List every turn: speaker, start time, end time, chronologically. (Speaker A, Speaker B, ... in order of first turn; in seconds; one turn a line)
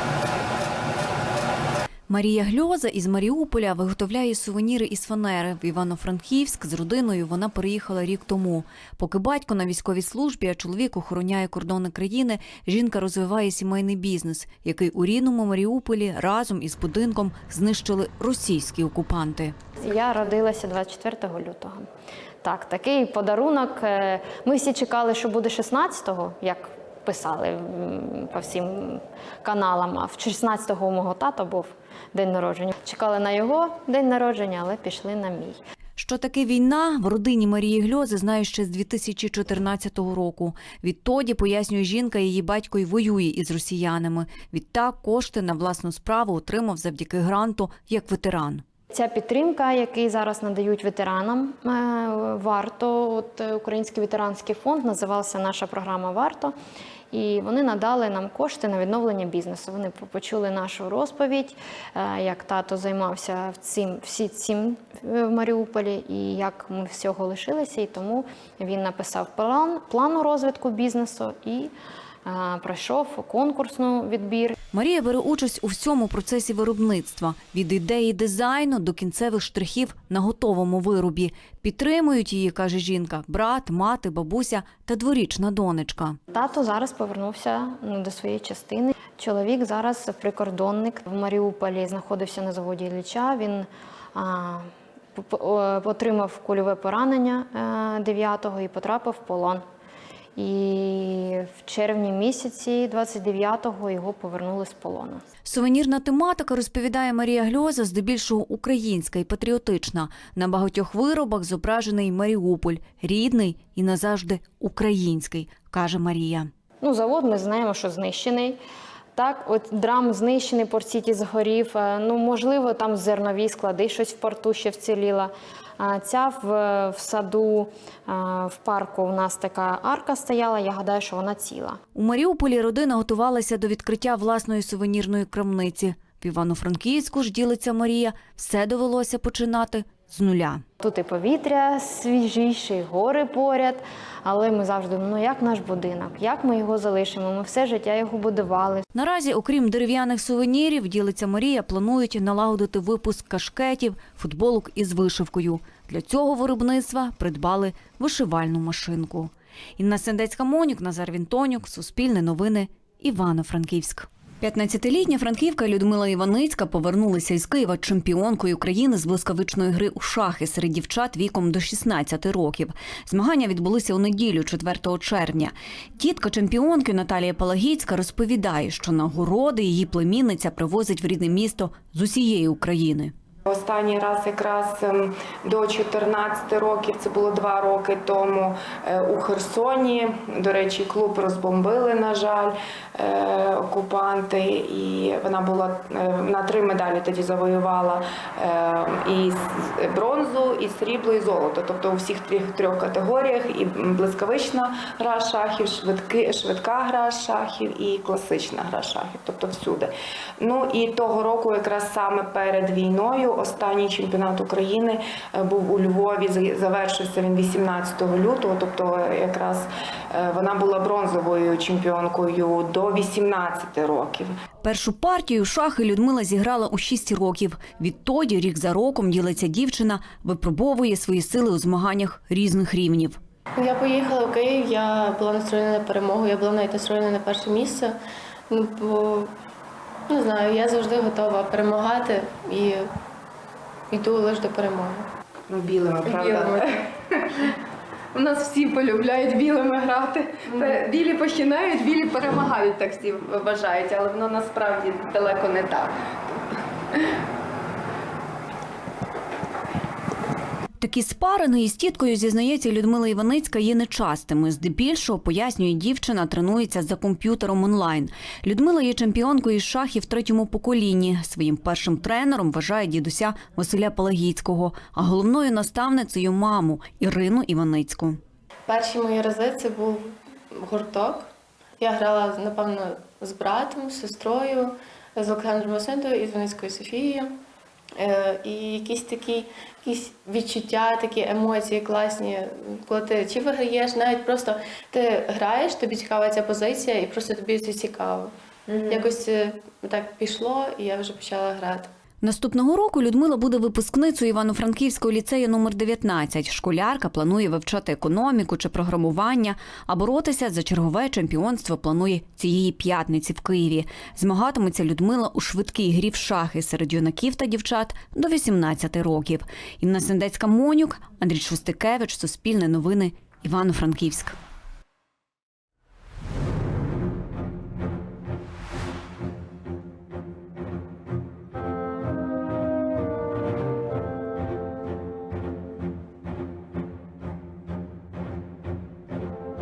Speaker A: 2.1-19.6
Speaker B: 19.8-21.9
Speaker B: 22.4-35.6
Speaker A: 36.0-48.6
Speaker B: 48.9-56.5
Speaker B: 57.1-71.7
Speaker B: 72.2-74.6
Speaker A: 74.7-86.2
Speaker B: 86.3-99.6
Speaker B: 100.4-105.2
Speaker A: 105.5-116.5
Speaker B: 116.8-118.6
Speaker B: 119.2-131.8
Speaker A: 131.9-140.6
Speaker B: 140.8-148.8
Speaker A: 148.9-183.1
Speaker C: 183.5-224.3
Speaker A: 224.6-233.2
Speaker D: 233.6-238.0
Speaker D: 238.5-239.3
Speaker D: 240.1-242.9
Speaker D: 243.9-245.1
Speaker E: 245.6-246.7
Speaker D: 246.1-246.6
Speaker E: 248.2-255.9
Speaker D: 250.5-250.8
Speaker A: 260.8-278.2
Speaker D: 278.7-281.3
Speaker D: 281.8-287.3
Speaker D: 288.0-298.3
Speaker D: 298.9-301.9
Speaker A: 302.2-324.4